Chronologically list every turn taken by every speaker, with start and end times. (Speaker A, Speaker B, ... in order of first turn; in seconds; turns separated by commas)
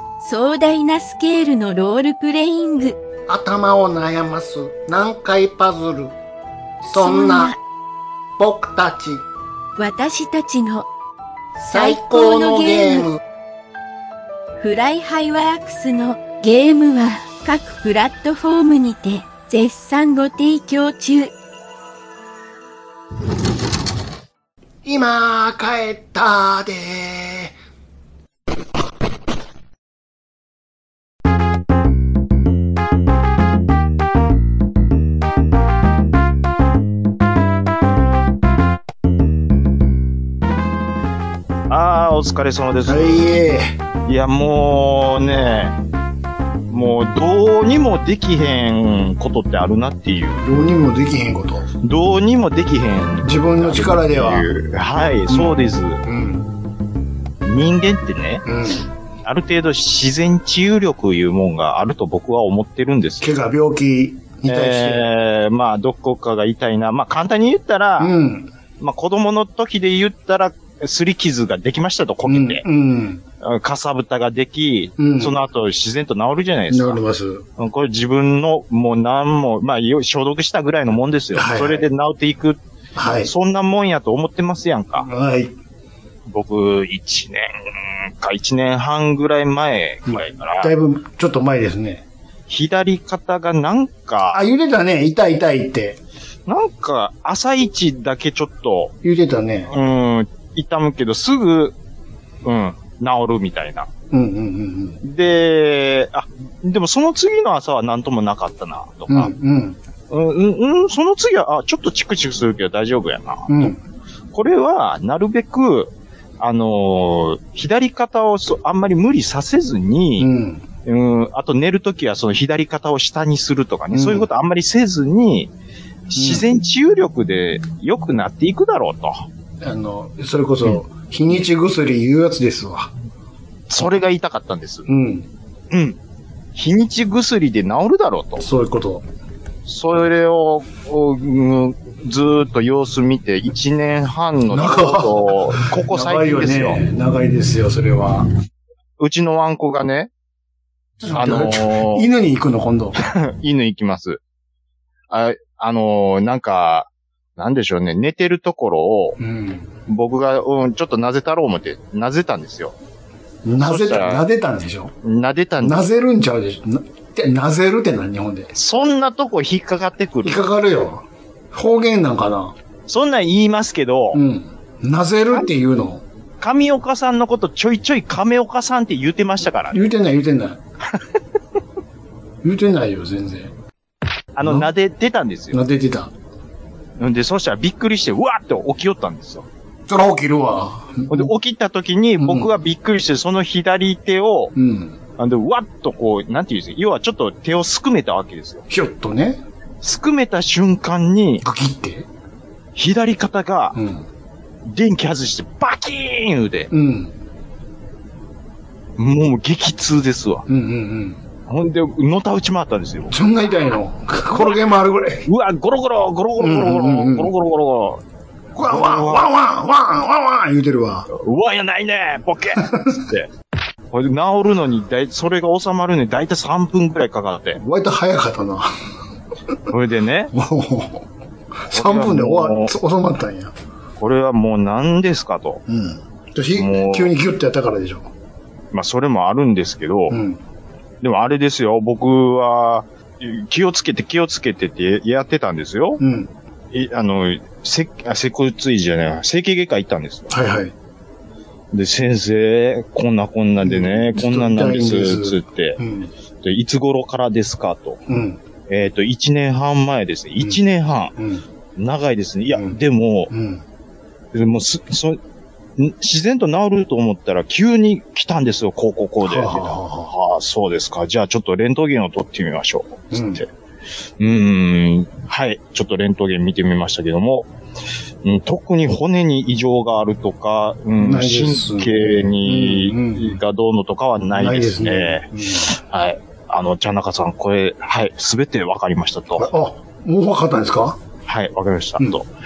Speaker A: 0.2-3.0, Speaker B: 3.3-6.2, Speaker B: 6.9-7.5, Speaker A: 6.9-7.6, Speaker B: 8.4-9.2, Speaker A: 9.8-10.9, Speaker A: 11.6-13.1, Speaker B: 11.6-13.2, Speaker A: 14.6-21.3, Speaker B: 24.8-27.6, Speaker C: 41.7-43.3, Speaker B: 42.9-43.7, Speaker C: 44.1-45.8, Speaker C: 46.7-50.5, Speaker B: 50.4-51.7, Speaker C: 51.8-56.0, Speaker B: 53.2-54.5, Speaker B: 55.3-56.5, Speaker C: 57.4-58.5, Speaker B: 58.5-58.9, Speaker C: 59.2-63.4, Speaker B: 63.2-65.1, Speaker C: 64.5-68.1, Speaker B: 68.0-68.5, Speaker C: 68.8-72.6, Speaker B: 72.3-73.2, Speaker C: 73.4-77.0, Speaker B: 75.0-75.4, Speaker B: 76.7-77.5, Speaker C: 77.6-82.6, Speaker B: 81.3-81.9, Speaker B: 83.0-83.3, Speaker C: 83.2-85.1, Speaker B: 85.1-85.5, Speaker C: 86.3-90.7, Speaker B: 90.1-92.0, Speaker C: 92.5-94.4, Speaker B: 94.3-96.0, Speaker C: 96.5-99.0, Speaker B: 99.0-99.7, Speaker C: 99.7-101.8, Speaker C: 102.4-103.9, Speaker B: 104.1-105.0, Speaker C: 105.0-109.3, Speaker B: 109.1-109.8, Speaker C: 110.1-113.7, Speaker B: 113.5-113.8, Speaker C: 114.3-120.3, Speaker B: 120.2-120.7, Speaker C: 120.9-125.5, Speaker B: 123.9-124.3, Speaker C: 126.1-129.2, Speaker B: 126.2-126.5, Speaker B: 129.6-132.9, Speaker C: 133.7-134.9, Speaker B: 134.9-135.3, Speaker C: 135.7-136.0, Speaker C: 136.6-138.5, Speaker B: 138.4-139.1, Speaker C: 139.7-146.8, Speaker B: 144.5-148.3, Speaker C: 149.0-150.1, Speaker B: 151.0-153.0, Speaker C: 151.1-152.1, Speaker C: 153.0-154.2, Speaker C: 155.1-159.2, Speaker B: 159.2-159.7, Speaker C: 159.9-162.8, Speaker B: 163.4-164.9, Speaker C: 163.6-164.2, Speaker C: 165.0-165.8, Speaker B: 165.6-168.5, Speaker C: 168.5-170.4, Speaker B: 170.2-172.6, Speaker C: 172.9-174.2, Speaker B: 174.1-176.0, Speaker C: 176.4-179.9, Speaker B: 179.7-180.6, Speaker B: 182.4-183.6, Speaker C: 184.3-185.6, Speaker B: 184.4-184.7, Speaker B: 185.5-186.1, Speaker C: 187.0-189.5, Speaker B: 189.9-191.3, Speaker C: 191.1-194.5, Speaker B: 192.2-192.5, Speaker B: 194.6-195.0, Speaker C: 195.2-198.7, Speaker B: 198.7-199.4, Speaker C: 199.8-201.4, Speaker B: 201.4-202.1, Speaker C: 202.8-203.8, Speaker B: 203.8-204.1, Speaker C: 204.7-206.7, Speaker B: 206.7-207.2, Speaker C: 209.0-210.5, Speaker B: 210.5-211.2, Speaker C: 211.5-213.2, Speaker B: 213.1-215.3, Speaker C: 215.3-218.0, Speaker B: 216.4-217.3, Speaker B: 218.6-221.1, Speaker C: 218.6-219.3, Speaker C: 221.1-223.3, Speaker B: 222.6-223.0, Speaker C: 223.9-227.6, Speaker B: 227.6-228.7, Speaker C: 229.7-230.3, Speaker B: 230.3-231.1, Speaker B: 231.7-233.5, Speaker C: 231.7-232.8, Speaker C: 234.0-235.6, Speaker B: 235.7-238.1, Speaker C: 236.6-237.2, Speaker C: 238.7-240.2, Speaker B: 240.1-240.4, Speaker C: 241.0-246.0, Speaker B: 246.0-246.3, Speaker C: 246.7-250.3, Speaker B: 250.3-250.7, Speaker C: 251.7-255.8, Speaker B: 253.6-256.1, Speaker C: 256.4-258.0, Speaker B: 258.1-258.4, Speaker C: 258.7-261.2, Speaker B: 261.2-261.4, Speaker C: 261.8-263.3, Speaker B: 263.3-263.6, Speaker C: 264.3-265.2, Speaker C: 265.8-273.5, Speaker B: 269.2-270.1, Speaker B: 273.1-273.4, Speaker C: 274.2-277.5, Speaker C: 278.2-289.5, Speaker B: 281.0-283.4, Speaker B: 284.4-285.7, Speaker B: 289.4-291.0, Speaker C: 291.3-292.3